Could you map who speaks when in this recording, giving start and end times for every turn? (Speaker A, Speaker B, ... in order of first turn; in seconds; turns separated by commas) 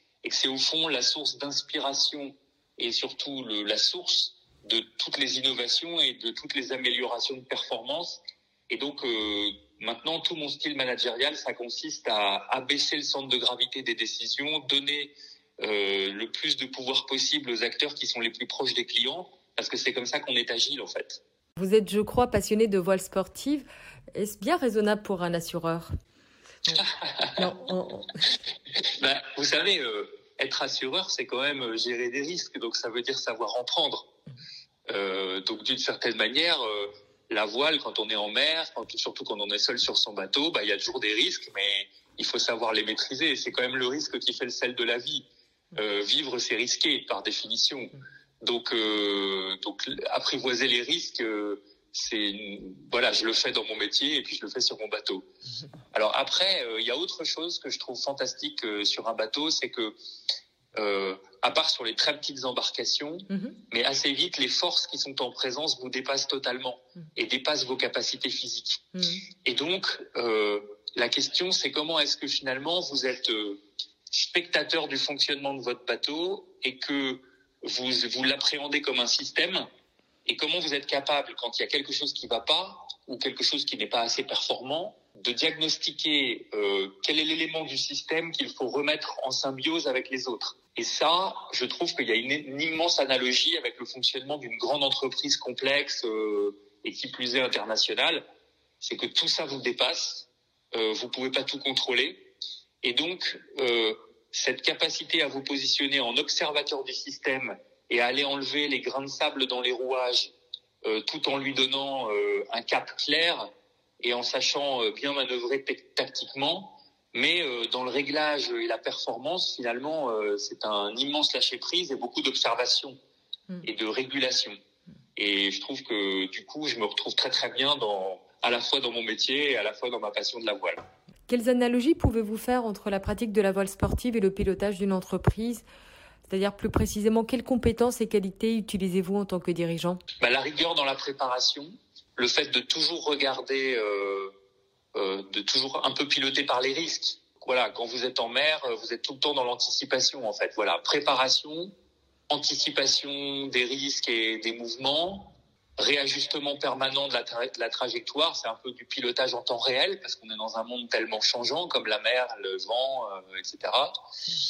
Speaker A: 0.2-21.2, Speaker B: 21.6-25.9, Speaker A: 26.8-27.4, Speaker B: 27.4-28.2, Speaker A: 28.8-34.1, Speaker A: 34.9-55.3, Speaker A: 55.9-60.0, Speaker A: 60.8-68.9, Speaker B: 63.3-63.6, Speaker B: 69.0-69.2, Speaker A: 69.4-79.7, Speaker A: 80.3-98.2, Speaker A: 98.8-102.3, Speaker A: 102.8-110.3, Speaker A: 110.8-113.5, Speaker A: 114.0-123.0, Speaker A: 123.6-124.6, Speaker A: 125.2-130.8, Speaker B: 131.3-135.7, Speaker B: 136.3-140.0, Speaker A: 140.2-144.3, Speaker A: 144.9-151.7, Speaker A: 152.3-163.9